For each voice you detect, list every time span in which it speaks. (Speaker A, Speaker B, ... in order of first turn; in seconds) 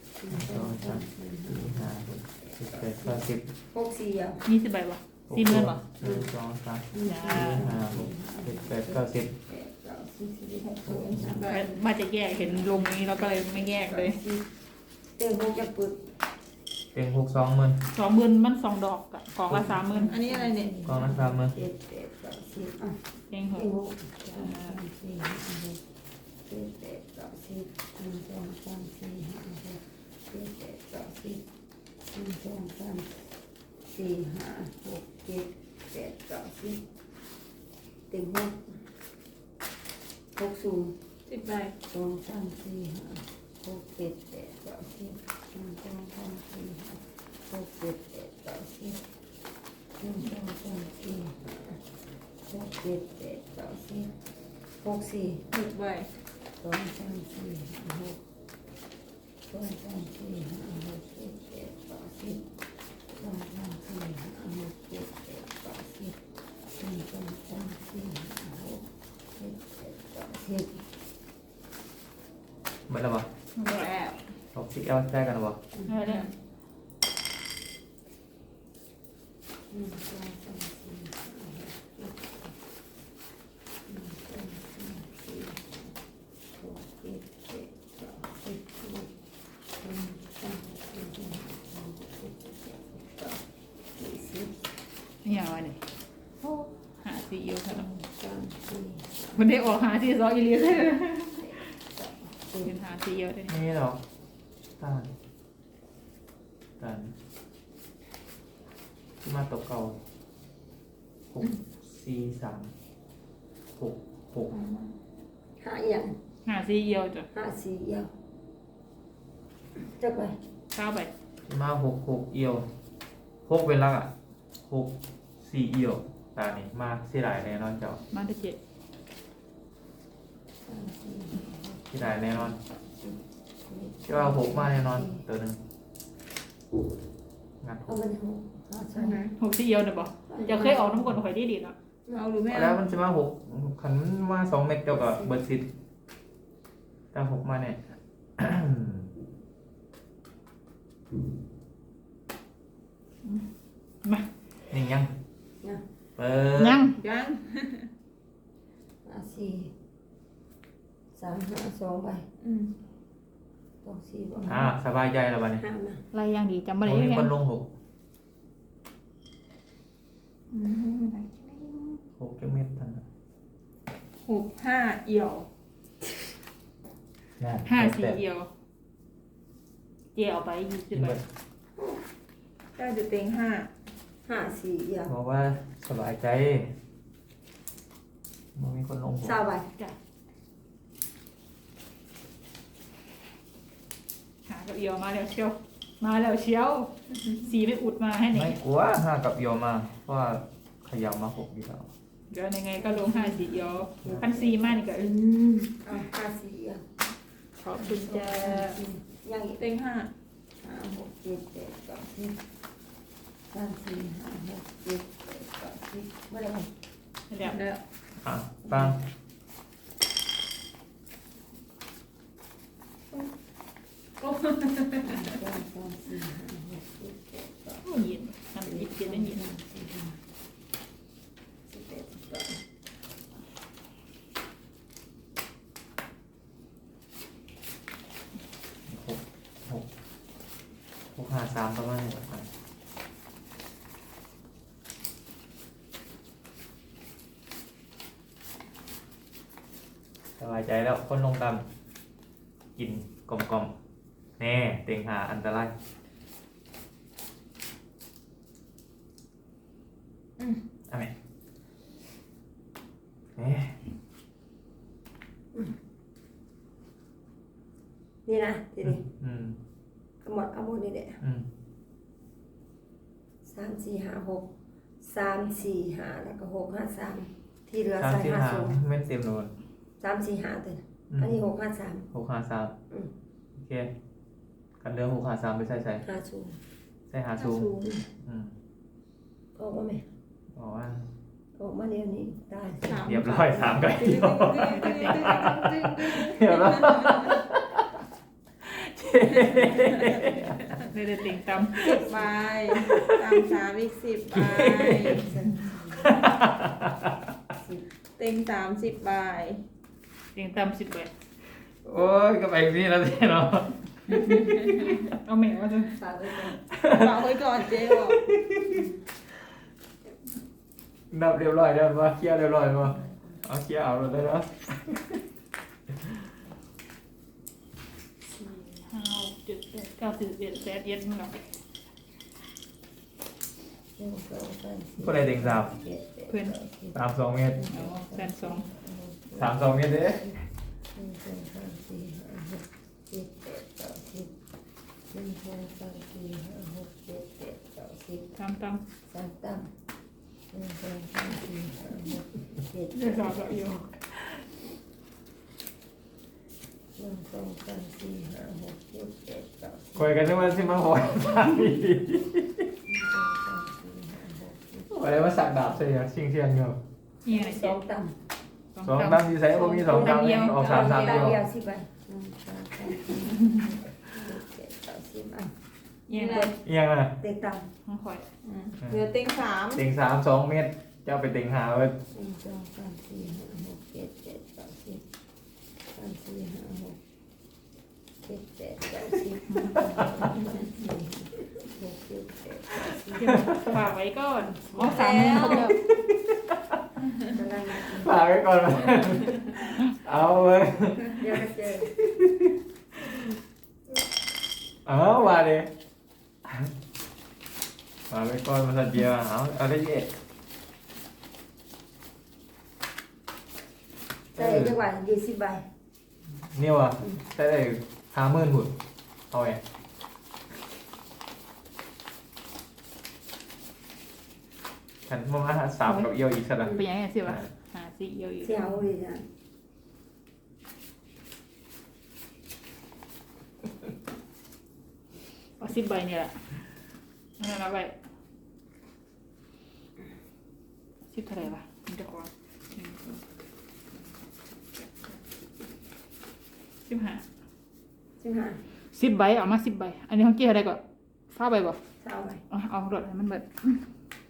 Speaker A: 0.2-4.4, 6.9-11.8, 12.4-14.5, 15.2-16.0, 19.7-23.0, 23.5-25.8, 26.4-31.4, 32.1-33.2, 33.8-36.8, 38.1-38.8, 40.4-41.0, 41.9-49.0, 50.0-51.8, 52.4-54.1, 54.8-55.4, 56.6-58.2, 59.5-62.4, 63.2-66.2, 66.7-70.9, 79.7-82.5, 83.8-85.9, 86.5-89.1, 89.8-93.4, 94.0-94.6, 98.1-99.4, 102.0-102.7, 115.6-116.2, 117.3-118.1, 119.8-120.4, 130.6-135.2, 137.9-139.2, 140.3-141.2, 144.9-145.4, 159.0-159.7, 161.1-162.2, 163.8-164.7, 165.6-166.0, 181.8-182.0, 184.2-185.1, 189.2-189.7, 202.8-206.8, 207.7-209.6, 210.6-212.4, 213.5-216.7, 218.7-218.9, 225.0-227.9, 228.6-230.2, 231.7-232.6, 268.2-269.0, 270.2-271.2, 273.4-278.7, 280.0-282.1, 286.0-286.6, 289.5-290.1, 291.6-293.0, 301.8-302.3, 305.2-306.1, 307.6-307.8, 316.0-316.6, 323.0-323.4, 334.0-337.0, 337.5-340.4, 340.9-344.3, 345.1-348.3, 349.1-349.7, 350.5-353.6, 356.9-360.1, 362.9-364.9, 367.3-368.1, 369.8-375.5, 376.2-376.6, 377.2-377.7, 382.1-385.0, 385.9-387.0, 388.2-393.6, 394.4-395.6, 397.3-398.1, 401.2-401.9, 414.3-415.7, 428.4-429.2, 448.2-448.6, 452.0-452.4
Speaker B: 0.3-3.5, 5.3-9.3, 16.9-17.8, 20.8-21.6, 72.9-73.3, 74.5-75.6, 103.5-104.0, 104.8-105.1, 106.8-107.1, 109.2-110.0, 111.3-112.7, 113.8-114.5, 121.4-122.7, 123.5-124.1, 124.7-128.0, 131.9-132.6, 134.1-135.6, 137.6-138.0, 142.5-145.7, 147.1-149.1, 154.7-155.1, 156.2-156.9, 164.4-165.6, 166.8-167.7, 172.2-173.1, 177.4-178.2, 180.9-181.2, 185.1-186.7, 188.5-189.4, 198.3-201.9, 218.2-219.0, 238.9-239.9, 241.1-242.5, 250.4-251.7, 252.8-253.7, 254.4-255.7, 263.4-263.8, 268.8-269.6, 271.2-271.5, 278.0-279.5, 281.1-281.4, 282.1-282.7, 283.6-283.9, 284.8-286.0, 287.1-288.6, 290.6-291.1, 293.0-297.9, 298.6-300.6, 302.7-303.2, 304.3-305.3, 306.0-307.1, 311.8-315.0, 316.7-318.8, 321.1-324.7, 335.0-335.7, 336.9-337.6, 339.3-340.3, 359.9-362.7, 364.9-366.8, 368.8-371.4, 376.6-377.2, 379.7-382.0, 389.8-390.2, 393.3-393.6, 395.7-396.8, 397.8-402.5, 404.8-405.7, 406.4-406.7, 408.1-410.1, 414.3-414.8, 416.3-418.8, 419.3-419.6, 425.1-427.5
Speaker C: 4.4-5.8, 7.0-7.7, 11.5-14.2, 17.9-20.1, 23.3-23.7, 24.2-24.8, 73.5-73.9, 75.9-76.3, 95.2-95.8, 96.4-98.0, 99.3-101.7, 102.6-103.5, 116.5-117.3, 120.7-121.1, 128.1-128.6, 139.3-141.7, 156.6-157.0, 166.1-167.3, 177.7-178.5, 180.1-181.2, 194.5-198.6, 202.3-205.1, 207.6-208.8, 217.3-217.6, 227.8-229.4, 294.7-295.6, 300.9-302.1, 310.3-311.1, 314.1-316.0, 328.9-331.6, 336.3-336.6, 337.7-338.6, 348.4-348.8, 352.9-354.2, 367.2-367.8, 368.7-371.3, 376.1-376.5, 377.9-378.3, 389.5-390.2, 393.2-395.8, 426.6-428.8, 435.6-436.7, 437.4-437.9, 441.1-443.2, 444.6-445.2, 446.9-447.2, 448.9-450.8, 451.3-451.8, 452.5-453.8
Speaker D: 11.0-11.7, 20.0-20.8, 41.2-41.8, 55.5-56.1, 73.6-74.2, 76.0-76.3, 114.5-114.9, 139.0-139.3, 142.1-142.8, 156.9-157.9, 162.4-162.7, 170.5-172.0, 174.2-175.5, 182.8-183.7, 209.6-210.1, 217.4-217.8, 224.2-225.2, 287.4-288.0, 292.8-297.4, 299.3-300.9, 301.8-305.3, 308.1-309.6, 316.9-318.2, 376.1-376.5, 378.4-379.8, 394.8-395.8